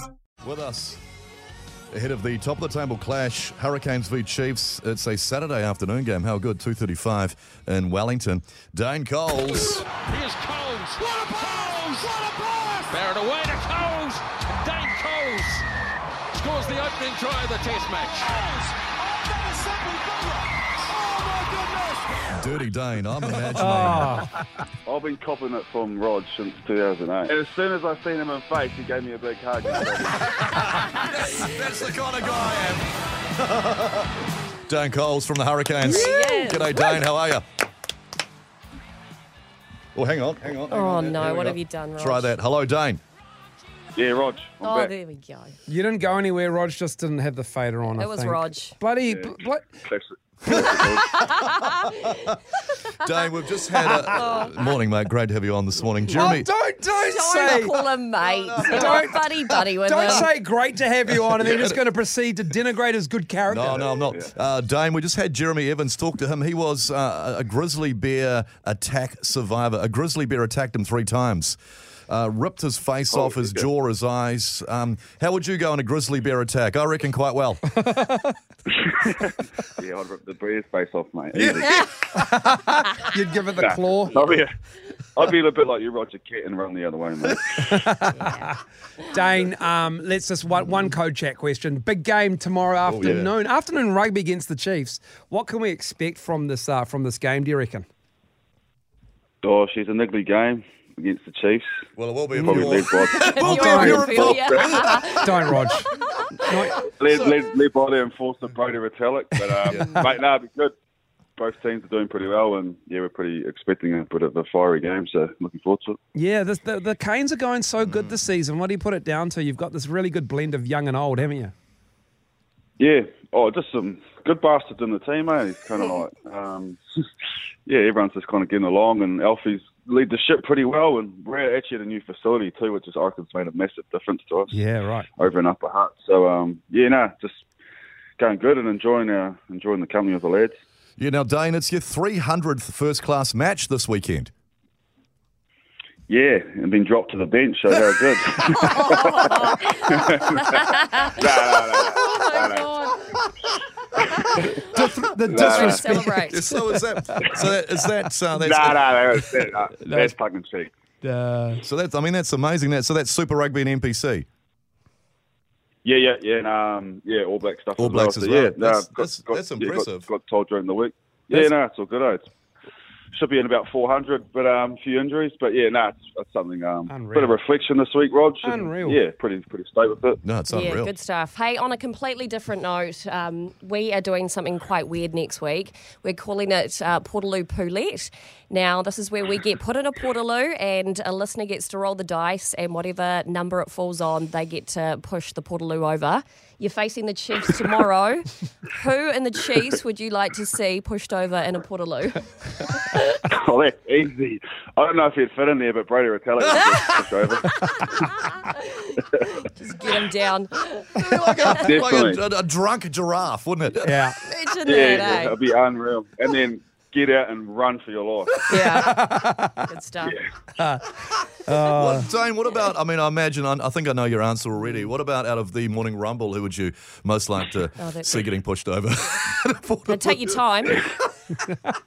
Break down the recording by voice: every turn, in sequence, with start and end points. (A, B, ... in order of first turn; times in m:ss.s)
0:00.4-0:01.0 A
0:01.9-0:09.9 A
0:10.0-0:15.6 B
0:16.4-0:22.3 B
0:22.3-0:24.3 A
0:23.6-0:24.4 C
0:24.8-0:30.7 D
0:30.3-0:34.1 A
0:34.7-0:37.4 A
0:35.8-0:37.0 E
0:40.0-0:43.0 A
0:40.7-0:42.4 E
0:44.0-0:44.9 D
0:44.6-0:45.6 E
0:45.7-0:49.7 C
0:47.9-0:48.8 E
0:49.1-0:51.5 D
0:50.5-0:50.8 C
0:50.6-0:51.9 E
0:53.0-0:56.5 A
0:54.1-0:54.7 E
0:56.1-0:57.8 C
0:57.0-1:00.3 E
0:58.2-0:59.2 A
0:58.7-0:59.2 C
0:59.8-1:03.9 C
1:01.1-1:01.8 A
1:03.5-1:11.6 A
1:12.1-1:17.6 A
1:13.1-1:13.7 D
1:17.7-1:18.4 C
1:18.7-1:21.9 D
1:21.3-1:21.8 A
1:22.1-1:24.3 C
1:23.6-1:24.5 D
1:25.2-1:27.8 D
1:27.6-1:28.6 C
1:28.0-1:28.5 E
1:29.1-1:37.9 C
1:32.9-1:33.3 A
1:39.4-1:41.6 D
1:42.0-1:45.4 A
1:42.4-1:44.8 D
1:43.0-1:47.3 E
1:43.4-1:44.0 C
1:45.2-1:45.8 C
1:46.4-1:46.8 C
1:46.8-1:50.7 D
1:49.7-1:50.0 E
1:49.7-1:50.0 C
1:51.4-1:56.0 D
1:56.1-2:01.5 C
1:57.8-1:58.2 A
2:02.8-2:06.8 D
2:07.7-2:14.6 D
2:14.5-2:15.1 C
2:15.2-2:17.4 D
2:18.2-2:20.5 D
2:21.0-2:24.3 A
2:26.1-2:32.7 D
2:28.5-2:33.1 E
2:34.0-2:34.4 D
2:34.3-2:37.4 C
2:34.4-2:36.5 E
2:35.3-2:35.8 D
2:36.3-2:39.0 A
2:38.4-2:40.7 D
2:39.8-2:40.1 C
2:41.0-2:41.6 C
2:41.6-2:44.3 A
2:45.8-2:52.2 D
2:47.8-2:50.1 A
2:53.1-3:00.2 D
2:56.9-2:57.4 C
2:58.4-2:59.0 C
3:00.2-3:00.9 A
3:00.5-3:23.2 E
3:23.3-3:28.0 D
3:28.4-3:31.6 E
3:31.0-3:34.0 A
3:31.6-3:32.2 D
3:33.8-3:34.2 C
3:34.3-3:35.4 E
3:34.6-3:38.5 D
3:38.4-3:39.1 E
3:38.5-3:39.6 C
3:39.6-3:40.2 E
3:40.6-3:42.1 C
3:41.7-3:50.4 A
3:47.8-3:48.3 E
3:49.9-3:50.8 E